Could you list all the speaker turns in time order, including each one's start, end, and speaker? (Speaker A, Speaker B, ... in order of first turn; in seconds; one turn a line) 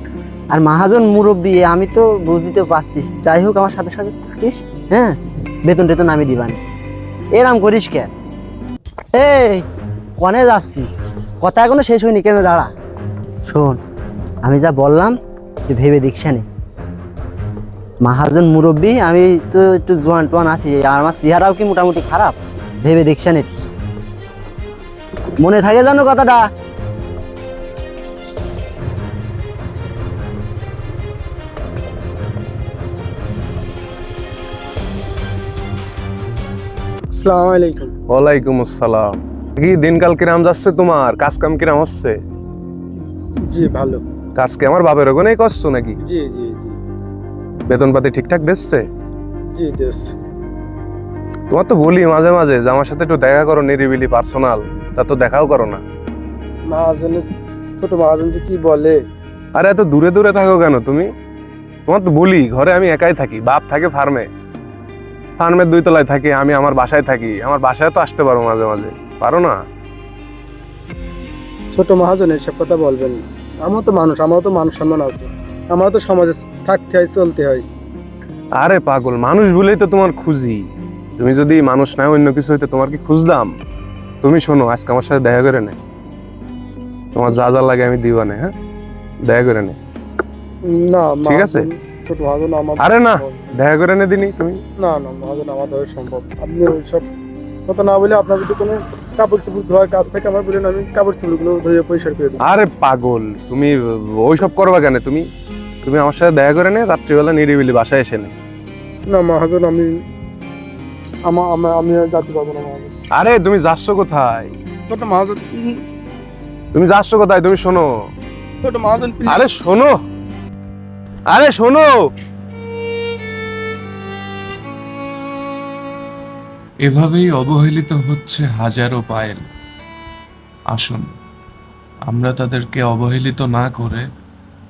Speaker A: 0.5-6.6
Speaker A: 7.3-8.1
Speaker A: 9.1-9.7
Speaker A: 10.2-12.7
Speaker A: 13.5-13.8
Speaker A: 14.4-15.2
Speaker A: 15.7-16.4
Speaker A: 18.0-23.5
Speaker A: 25.4-26.4
Speaker B: 37.1-37.9
Speaker C: 38.1-42.2
Speaker B: 43.5-44.0
Speaker C: 44.4-46.0
Speaker B: 46.0-46.8
Speaker C: 47.7-48.9
Speaker B: 49.5-50.1
Speaker C: 51.5-55.8
Speaker B: 56.7-59.0
Speaker C: 59.6-61.1
Speaker C: 61.9-64.3
Speaker C: 65.4-69.5
Speaker B: 71.7-77.7
Speaker C: 78.6-80.6
Speaker C: 81.2-83.5
Speaker C: 84.2-85.8
Speaker C: 87.2-88.5
Speaker C: 89.2-89.8
Speaker B: 90.7-93.5
Speaker C: 91.3-91.7
Speaker C: 92.8-94.6
Speaker B: 94.8-97.0
Speaker B: 97.7-102.5
Speaker C: 102.4-105.3
Speaker C: 105.8-108.3
Speaker B: 109.1-109.9
Speaker B: 111.3-112.9
Speaker C: 113.1-114.5
Speaker B: 114.9-115.8
Speaker C: 116.7-117.8
Speaker B: 118.6-119.5
Speaker C: 119.3-119.9
Speaker C: 121.3-121.9
Speaker D: 126.8-129.5
Speaker D: 130.7-131.1
Speaker D: 132.1-134.1